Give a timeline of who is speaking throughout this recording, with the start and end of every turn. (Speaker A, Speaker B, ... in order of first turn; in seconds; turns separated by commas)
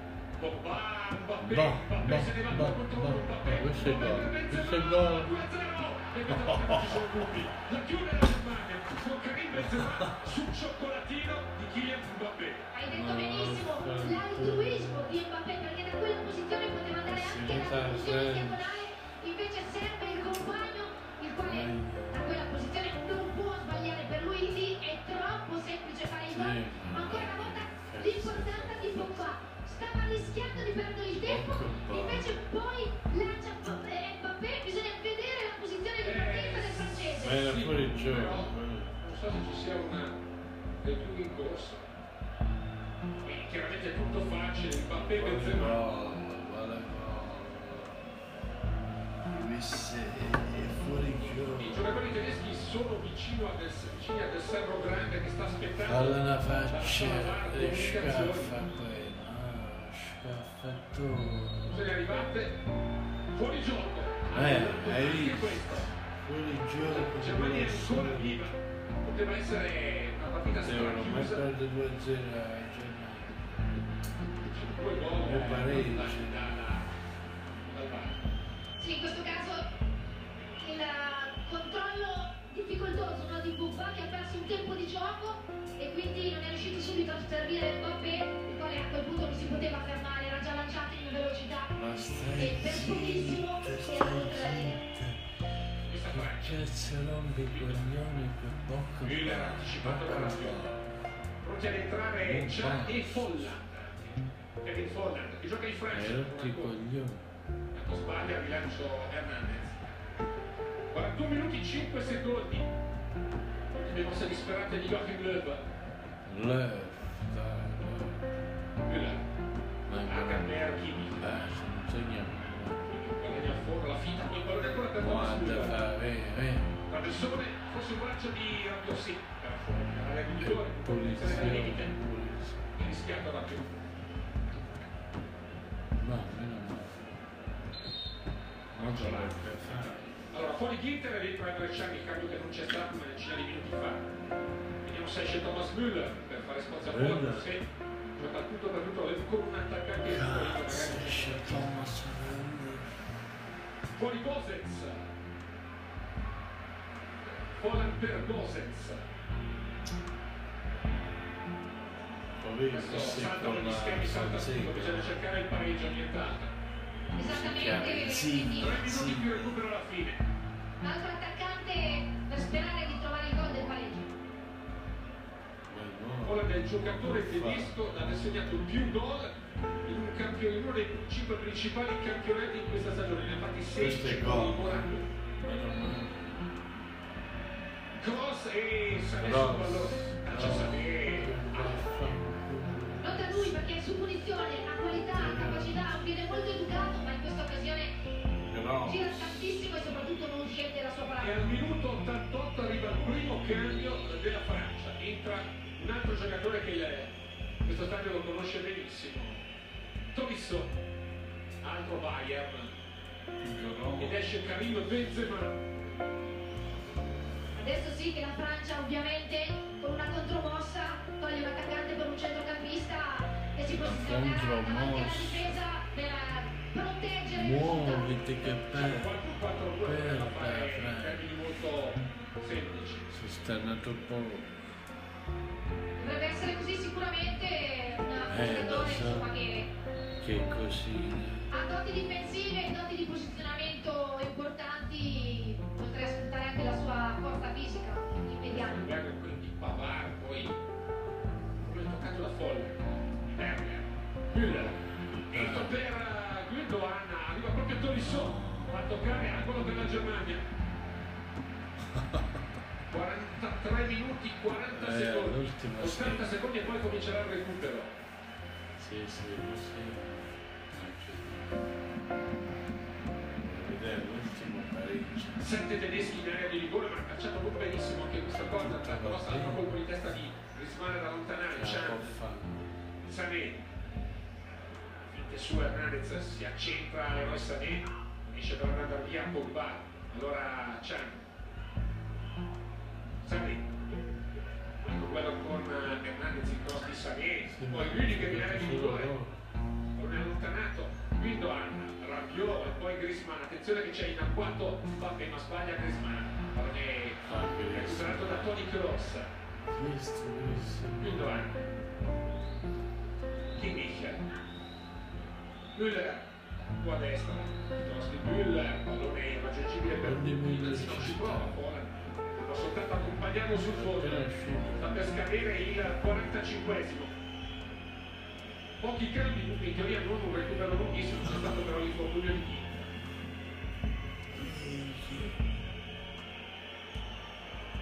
Speaker A: 0.4-12.7, Speaker B: 1.4-5.3, Speaker B: 6.3-7.2, Speaker B: 9.6-10.3, Speaker C: 12.7-37.4, Speaker B: 12.8-15.2, Speaker B: 17.1-18.8, Speaker B: 21.4-22.5, Speaker B: 26.3-29.3, Speaker B: 31.1-32.3, Speaker A: 36.0-40.2, Speaker B: 37.2-39.0, Speaker A: 40.8-41.9, Speaker A: 43.2-45.8, Speaker B: 45.0-48.0, Speaker B: 49.2-52.0, Speaker A: 51.2-58.5, Speaker B: 55.8-61.7, Speaker A: 61.7-62.6, Speaker A: 63.3-65.9, Speaker B: 64.3-68.4, Speaker A: 66.9-71.4, Speaker B: 70.5-73.5, Speaker A: 74.5-76.9, Speaker B: 75.2-76.5, Speaker A: 77.7-78.2, Speaker C: 78.8-79.6, Speaker C: 80.6-91.7, Speaker B: 91.7-100.8, Speaker C: 92.4-94.8, Speaker A: 95.9-96.6, Speaker A: 97.5-97.9, Speaker A: 99.0-100.7, Speaker A: 101.4-106.7, Speaker B: 102.2-103.5, Speaker B: 105.9-107.3, Speaker A: 107.7-109.9, Speaker A: 110.9-112.7, Speaker A: 113.7-115.7, Speaker B: 116.2-118.3, Speaker A: 118.8-119.3, Speaker B: 119.9-120.5, Speaker A: 120.0-121.2, Speaker B: 121.2-122.9, Speaker A: 122.9-125.8, Speaker B: 125.0-126.8, Speaker A: 126.9-132.0, Speaker B: 130.4-132.7, Speaker A: 132.7-133.8, Speaker B: 136.0-137.2, Speaker B: 138.7-140.0, Speaker A: 138.7-144.1, Speaker A: 144.8-151.9, Speaker B: 146.8-147.5, Speaker B: 150.0-153.2, Speaker A: 153.9-155.1, Speaker A: 157.2-159.1, Speaker B: 162.4-165.2, Speaker A: 162.7-166.5, Speaker C: 167.1-168.8, Speaker B: 167.1-169.6, Speaker A: 168.6-170.2, Speaker C: 170.8-174.1, Speaker B: 175.7-177.7, Speaker A: 176.2-185.1, Speaker B: 183.8-184.9, Speaker B: 185.4-186.5, Speaker A: 188.0-192.1, Speaker B: 189.2-193.6, Speaker C: 193.0-197.9, Speaker B: 195.1-195.8, Speaker B: 198.4-199.4, Speaker C: 198.8-201.5, Speaker A: 201.2-207.1, Speaker A: 207.6-209.4, Speaker A: 210.1-210.8, Speaker A: 211.6-212.7, Speaker B: 213.4-214.2, Speaker A: 214.0-215.6, Speaker C: 217.6-228.1, Speaker B: 223.7-225.6, Speaker B: 227.3-229.2, Speaker A: 228.7-233.1, Speaker B: 229.8-231.4, Speaker B: 233.1-234.8, Speaker C: 236.0-239.7, Speaker B: 238.3-239.3, Speaker B: 240.2-241.5, Speaker C: 241.5-248.9, Speaker A: 248.4-250.6, Speaker A: 251.6-254.8, Speaker B: 254.4-255.8, Speaker A: 255.3-260.4, Speaker B: 257.9-258.9, Speaker B: 261.8-262.4, Speaker A: 262.9-267.9, Speaker B: 264.7-266.4, Speaker B: 268.8-271.7, Speaker B: 273.4-275.5, Speaker A: 275.4-282.1, Speaker B: 278.3-279.7, Speaker B: 281.5-282.7, Speaker A: 283.0-283.6, Speaker A: 285.0-291.3, Speaker A: 293.2-293.7, Speaker A: 294.8-299.1, Speaker B: 297.5-299.4, Speaker A: 299.9-309.3, Speaker B: 307.2-308.6, Speaker B: 309.7-311.5, Speaker A: 311.0-311.6, Speaker A: 313.6-314.2, Speaker A: 315.7-324.3, Speaker B: 319.9-321.6, Speaker B: 323.7-325.1, Speaker A: 324.8-327.1, Speaker A: 328.8-332.9, Speaker B: 331.2-331.5, Speaker B: 334.3-335.5